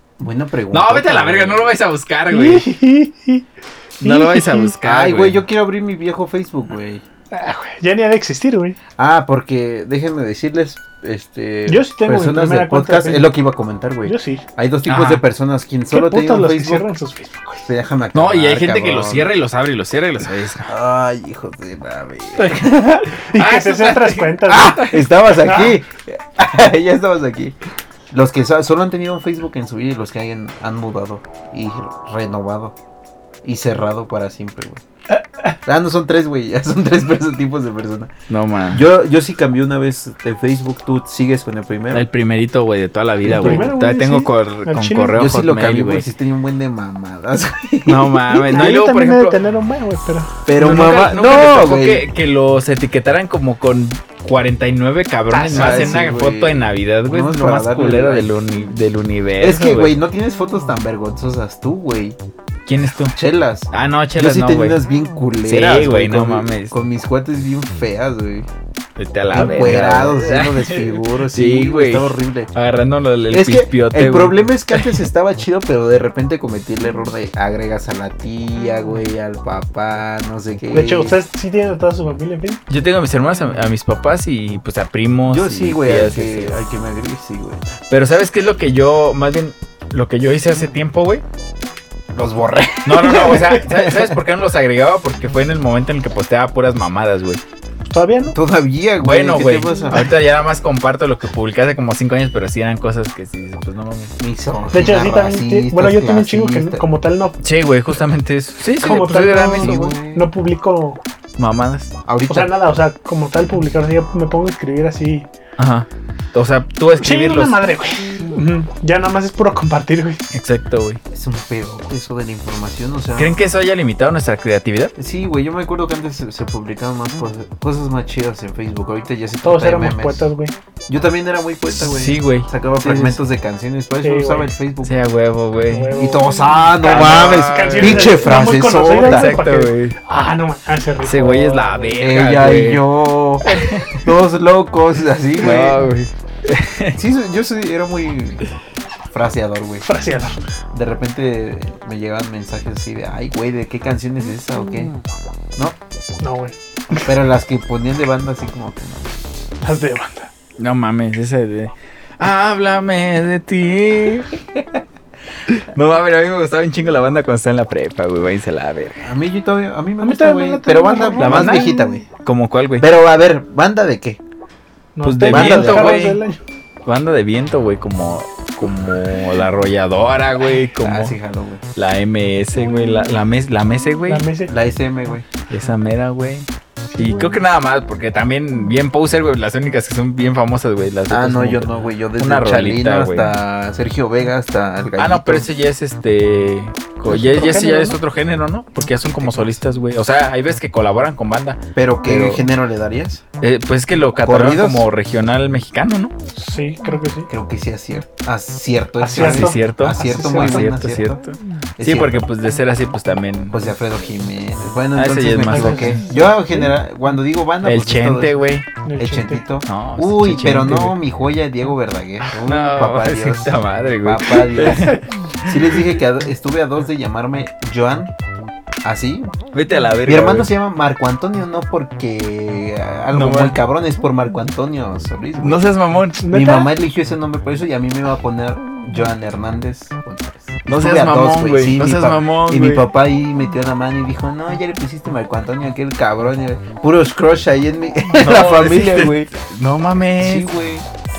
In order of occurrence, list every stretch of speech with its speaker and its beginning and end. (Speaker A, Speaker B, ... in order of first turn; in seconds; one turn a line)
Speaker A: 0.2-1.7
Speaker B: 0.7-2.7
Speaker C: 2.3-3.5
Speaker C: 4.0-4.8
Speaker B: 4.0-5.4
Speaker A: 4.8-7.0
Speaker C: 7.3-8.8
Speaker A: 9.0-16.9
Speaker C: 11.7-13.3
Speaker C: 14.1-14.4
Speaker B: 14.9-15.2
Speaker C: 15.9-17.7
Speaker A: 17.7-19.3
Speaker B: 18.1-20.7
Speaker A: 20.7-23.2
Speaker B: 23.2-25.0
Speaker C: 23.3-24.9
Speaker A: 24.5-27.6
Speaker C: 25.4-25.7
Speaker A: 28.1-32.8
Speaker A: 33.4-34.8
Speaker C: 35.1-35.6
Speaker A: 35.6-38.1
Speaker B: 38.3-38.8
Speaker A: 38.7-42.1
Speaker B: 41.9-46.1
Speaker A: 43.2-43.7
Speaker C: 43.3-45.2
Speaker A: 45.1-48.7
Speaker B: 47.9-49.4
Speaker C: 48.5-50.4
Speaker A: 50.5-52.0
Speaker B: 50.6-60.0
Speaker A: 55.4-58.3
Speaker C: 55.4-55.7
Speaker A: 59.4-62.2
Speaker B: 62.7-63.2
Speaker A: 63.1-68.5
Speaker B: 63.7-64.8
Speaker B: 65.5-66.8
Speaker B: 69.0-75.0
Speaker A: 69.3-72.5
Speaker A: 73.3-81.2
Speaker C: 80.7-82.6
Speaker B: 82.7-86.6
Speaker A: 85.3-87.7
Speaker B: 87.9-91.2
Speaker A: 92.1-94.2
Speaker B: 92.8-97.4
Speaker C: 97.9-98.4
Speaker A: 98.3-100.1
Speaker B: 99.0-104.2
Speaker A: 104.2-106.8
Speaker C: 104.7-107.4
Speaker B: 107.4-110.0
Speaker C: 108.8-111.0
Speaker A: 109.5-110.3
Speaker B: 111.4-112.0
Speaker A: 112.1-112.5
Speaker C: 112.3-115.3
Speaker B: 115.6-117.6
Speaker C: 117.0-120.2
Speaker B: 120.3-121.0
Speaker A: 121.1-123.3
Speaker B: 123.2-124.9
Speaker A: 125.0-130.3
Speaker C: 129.4-130.5
Speaker A: 130.9-134.9
Speaker B: 131.7-133.2
Speaker C: 134.0-134.5
Speaker B: 134.8-135.9
Speaker C: 135.7-141.9
Speaker A: 135.9-139.4
Speaker B: 136.8-138.2
Speaker B: 138.9-140.0
Speaker B: 141.0-142.8
Speaker A: 142.0-145.8
Speaker B: 143.5-144.0
Speaker B: 145.4-147.0
Speaker A: 146.9-148.4
Speaker A: 149.1-149.9
Speaker C: 149.8-150.4
Speaker A: 150.7-154.9
Speaker C: 156.2-156.6
Speaker A: 157.0-159.1
Speaker C: 159.6-160.3
Speaker B: 160.6-164.4
Speaker B: 165.5-169.1
Speaker A: 169.0-172.1
Speaker C: 170.0-172.0
Speaker B: 171.2-172.9
Speaker A: 172.8-174.2
Speaker C: 175.0-176.4
Speaker B: 175.0-176.2
Speaker A: 175.2-176.0
Speaker B: 176.9-181.2
Speaker A: 180.8-181.7
Speaker B: 181.8-184.3
Speaker C: 184.1-184.5
Speaker A: 184.5-185.3
Speaker B: 185.5-193.3
Speaker C: 186.9-187.2
Speaker A: 191.1-195.5
Speaker B: 195.0-202.5
Speaker A: 197.1-197.8
Speaker C: 197.4-197.9
Speaker A: 199.2-199.6
Speaker A: 201.8-203.2
Speaker B: 203.4-206.1
Speaker A: 204.2-204.9
Speaker C: 206.4-207.3
Speaker A: 207.3-211.2
Speaker C: 209.0-210.7
Speaker B: 209.1-213.6
Speaker A: 211.8-212.2
Speaker A: 213.5-218.4
Speaker B: 214.9-216.0
Speaker C: 215.5-216.0
Speaker B: 217.6-218.7
Speaker C: 218.8-219.4
Speaker A: 219.0-228.1
Speaker B: 219.7-221.0
Speaker B: 222.3-225.6
Speaker A: 228.8-229.4
Speaker B: 229.5-230.5
Speaker A: 230.1-235.7
Speaker B: 233.1-233.6
Speaker B: 235.4-236.2
Speaker C: 236.2-236.7
Speaker A: 236.3-249.3
Speaker B: 240.7-242.8
Speaker B: 248.2-250.5
Speaker A: 250.2-250.9